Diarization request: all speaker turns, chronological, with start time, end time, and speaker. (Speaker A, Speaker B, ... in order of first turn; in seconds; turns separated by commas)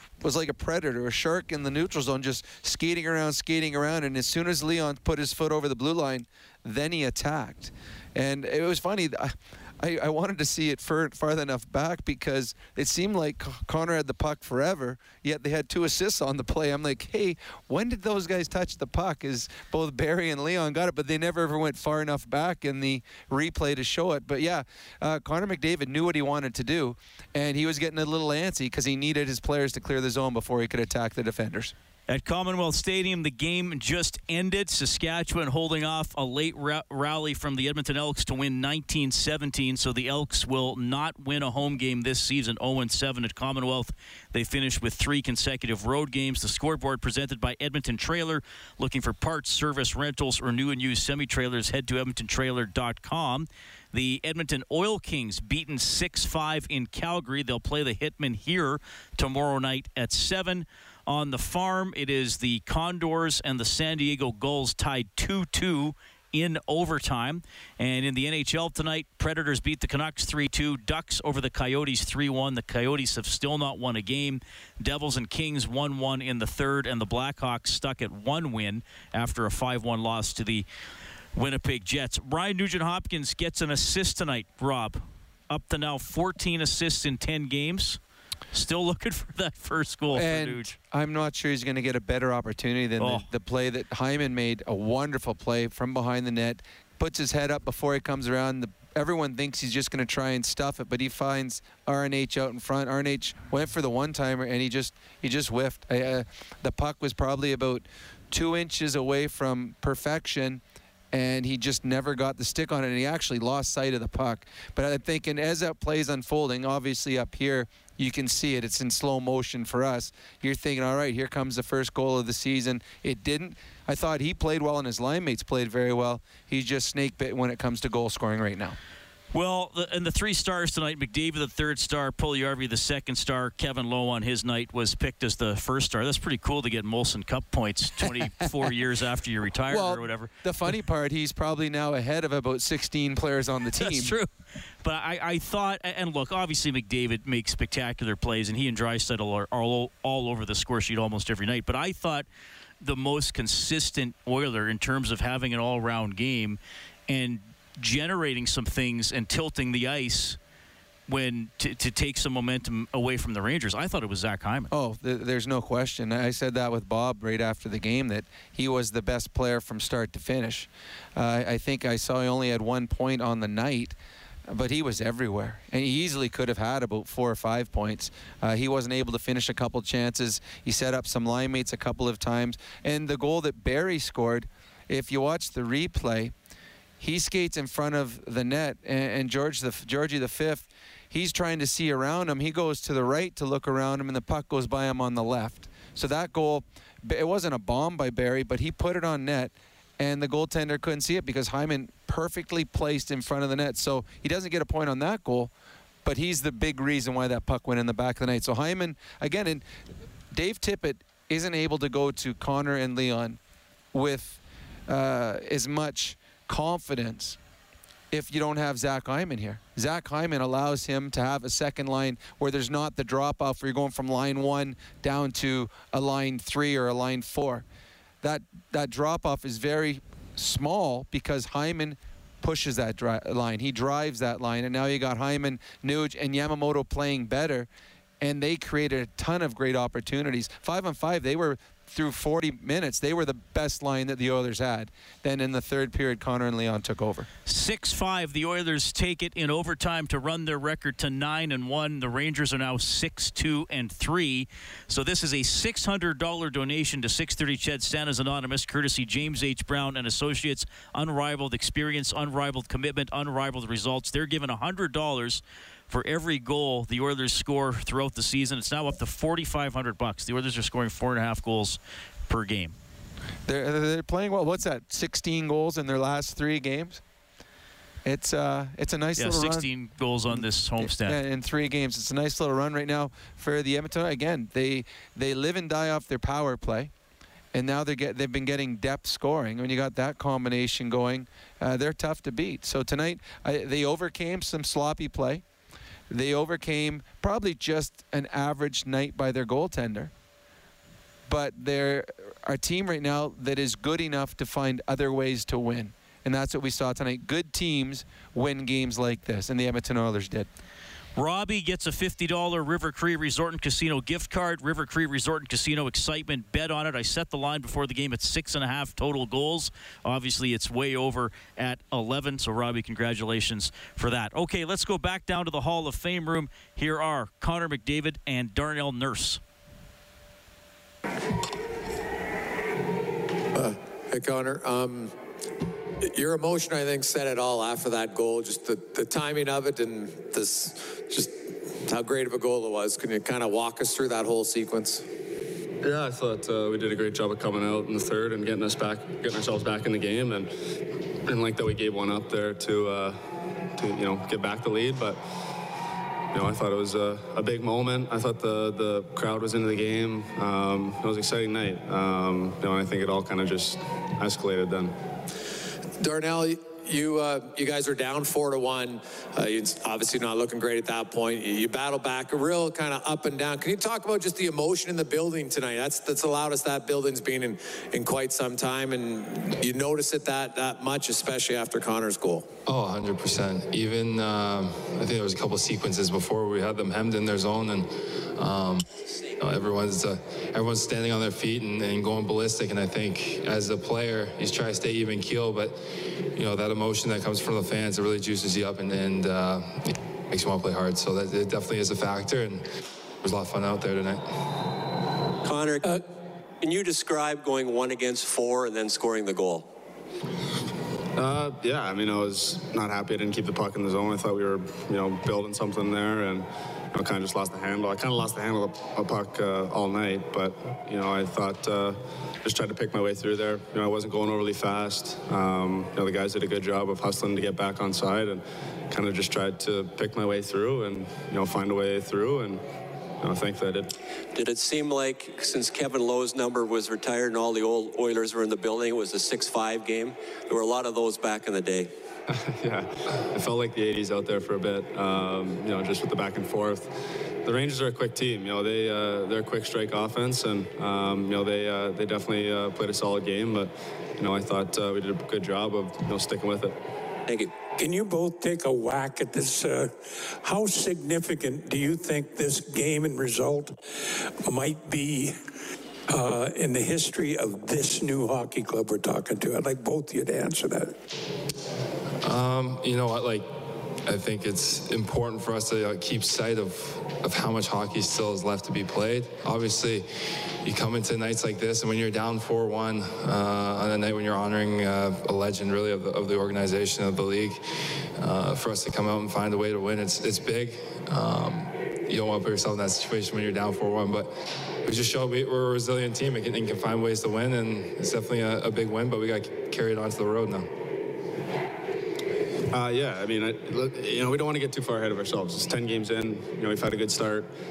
Speaker A: 0.2-31.7, Speaker B: 32.1-80.6, Speaker B: 81.3-88.0, Speaker B: 88.5-90.8, Speaker A: 90.1-128.8, Speaker B: 93.0-93.3, Speaker B: 129.3-140.3, Speaker A: 139.7-144.1, Speaker B: 143.8-144.3, Speaker B: 144.8-152.3, Speaker B: 152.8-160.4, Speaker B: 161.1-164.7, Speaker A: 164.7-173.9, Speaker A: 174.5-186.3, Speaker A: 187.0-205.5, Speaker A: 206.1-209.6, Speaker A: 210.3-213.4, Speaker A: 213.9-217.4, Speaker A: 218.1-227.6, Speaker A: 228.2-237.7, Speaker A: 238.2-247.3, Speaker B: 247.5-272.8, Speaker A: 273.5-277.0, Speaker A: 278.1-279.7, Speaker B: 279.2-281.2, Speaker A: 280.3-286.9, Speaker A: 287.5-295.4, Speaker A: 296.1-300.1, Speaker A: 301.3-310.5, Speaker B: 311.2-329.4, Speaker C: 333.6-335.1, Speaker C: 336.1-345.1, Speaker D: 345.8-350.5, Speaker D: 351.3-353.2, Speaker D: 353.8-355.2, Speaker D: 356.3-364.9, Speaker C: 366.0-382.5, Speaker E: 382.7-402.7, Speaker E: 403.2-404.5, Speaker F: 405.4-406.0, Speaker F: 406.6-409.7, Speaker D: 411.2-432.6, Speaker D: 433.2-433.9, Speaker F: 434.3-441.9, Speaker D: 442.3-456.8, Speaker G: 457.8-463.8, Speaker G: 464.4-465.4, Speaker G: 466.1-470.9, Speaker E: 472.2-500.7, Speaker D: 502.7-507.5